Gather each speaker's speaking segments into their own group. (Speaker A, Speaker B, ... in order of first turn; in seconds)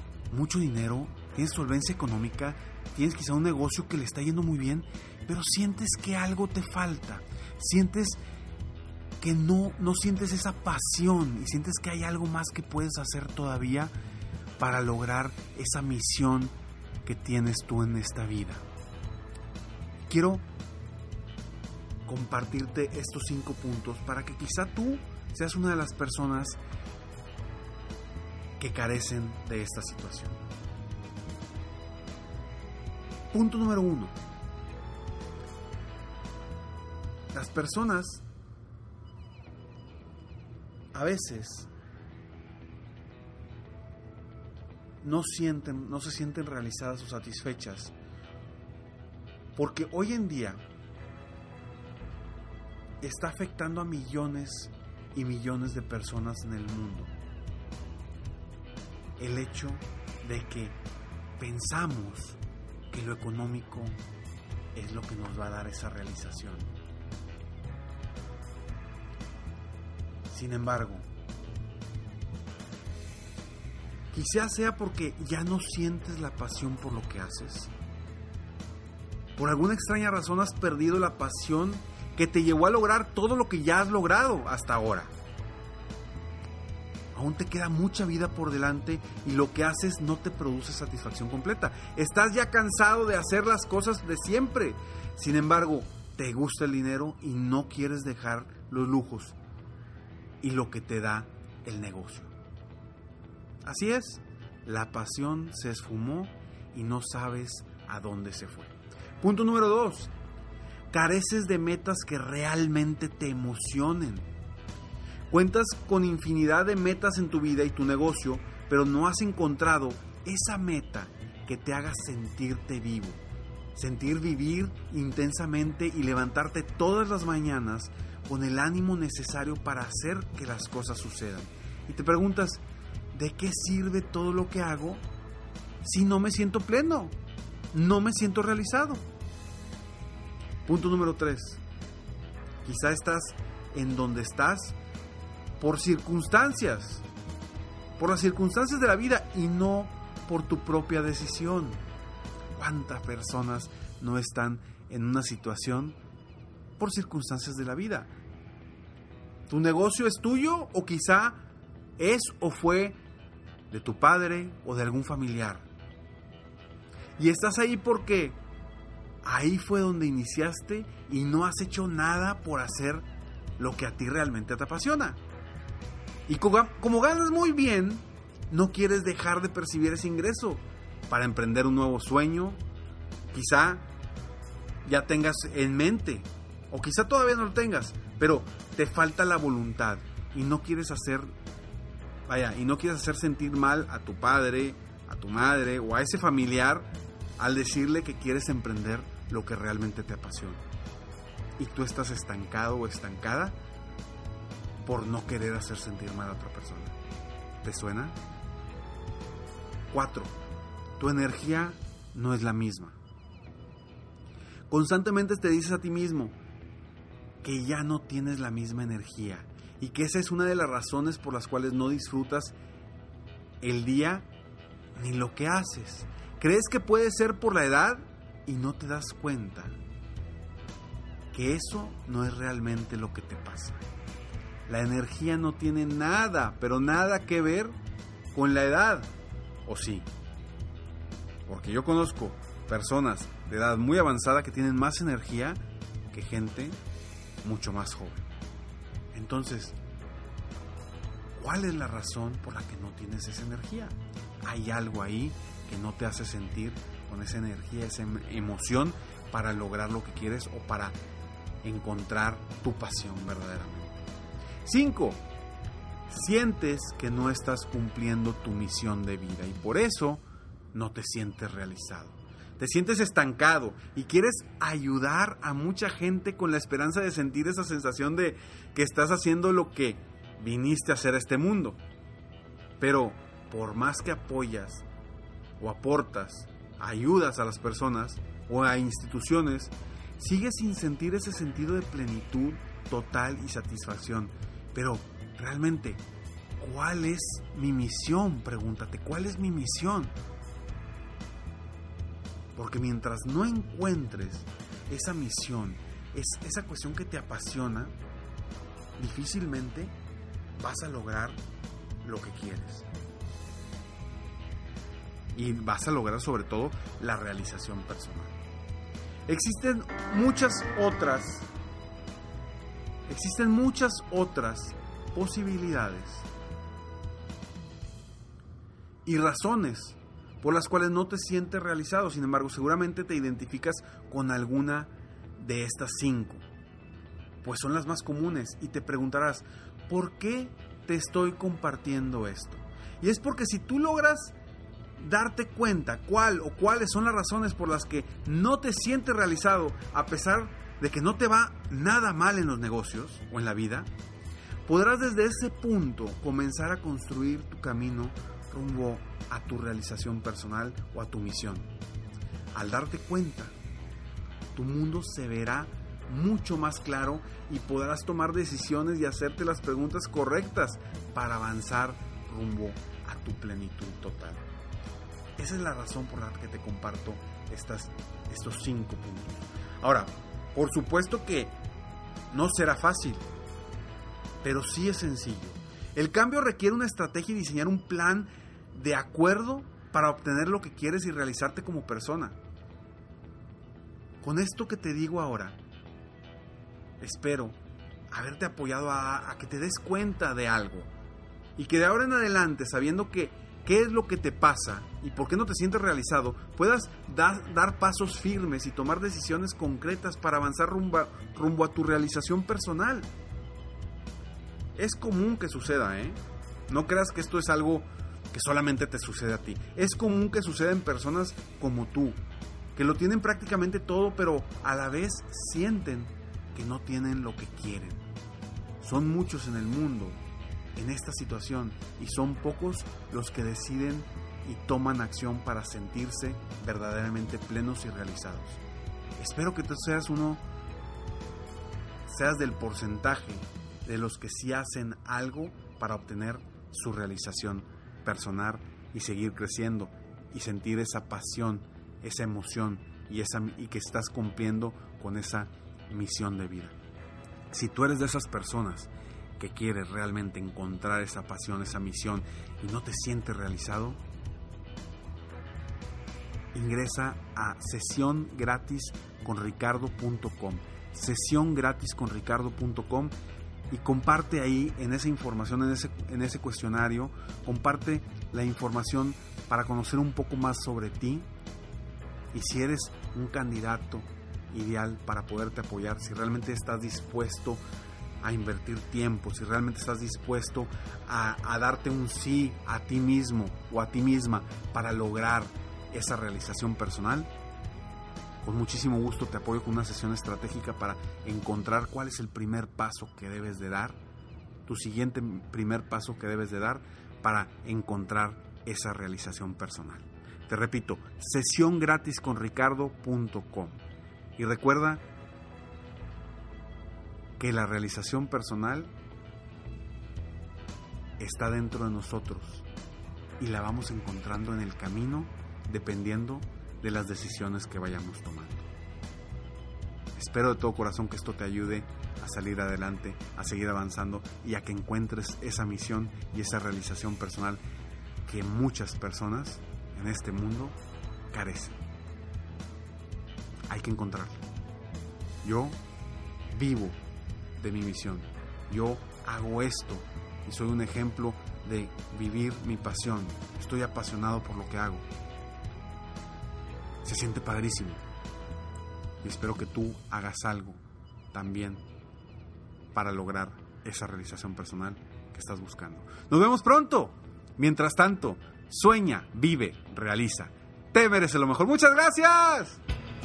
Speaker A: 0.3-8.2, 9.2-13.9, 14.6-18.6, 20.1-20.5, 22.1-26.6, 28.6-30.4, 33.3-34.2, 37.3-38.2, 40.9-41.7, 45.0-47.9, 49.5-50.6, 53.0-57.1, 59.2-60.8, 61.4-62.4, 62.9-64.0, 64.7-66.7, 70.3-71.1, 74.1-77.7, 79.3-85.1, 87.1-99.4, 100.4-102.3, 103.6-110.1, 110.9-114.3, 115.3-123.2, 123.7-135.1, 135.8-137.2, 137.7-139.1, 140.6-141.6, 142.6-144.8, 145.6-147.1, 148.0-151.8, 152.5-156.0, 156.8-158.1, 159.5-161.5, 162.0-163.0, 163.7-165.7, 167.2-168.4, 169.2-173.1, 173.6-175.2, 176.3-182.6, 183.3-183.9, 184.8-191.3, 192.3-200.6, 201.6-203.6, 204.8-206.9, 207.6-208.2, 209.9-210.4, 211.0-213.0, 214.7-216.4, 217.4-222.6, 223.6-224.3, 224.9-229.8, 231.3-233.8, 234.7-237.8, 238.3-239.1, 239.7-240.1, 241.5-246.8, 247.4-248.3, 249.1-249.8, 251.4-261.0, 261.6-264.0, 264.6-265.2, 266.1-281.8, 282.8-284.8, 285.6-296.0, 296.6-300.2, 302.5-307.9, 309.0-309.9, 310.6-311.4, 312.0-312.9, 315.3-318.4, 319.2-321.5, 323.1-326.3, 329.0-336.4, 337.4-344.4, 345.0-353.9, 354.6-361.7, 362.5-363.6, 364.5-374.4, 375.4-381.6, 382.3-383.3, 384.4-392.4, 394.2-395.6, 397.0-397.6, 398.1-400.9, 401.6-413.1, 414.8-422.2, 422.7-428.0, 428.8-430.2, 430.8-438.6, 439.2-440.4, 442.1-456.8, 457.5-464.0, 466.5-473.1, 473.7-481.3, 482.3-487.6, 488.2-497.3, 498.4-504.0, 504.6-513.8, 514.4-515.0, 517.4-518.9, 521.2-522.6, 523.4-528.7, 530.1-537.6, 538.2-540.8, 541.3-541.8, 543.7-544.4, 545.4-545.8, 546.5-547.0, 547.6-555.0, 557.0-558.0, 559.2-561.8, 562.9-572.8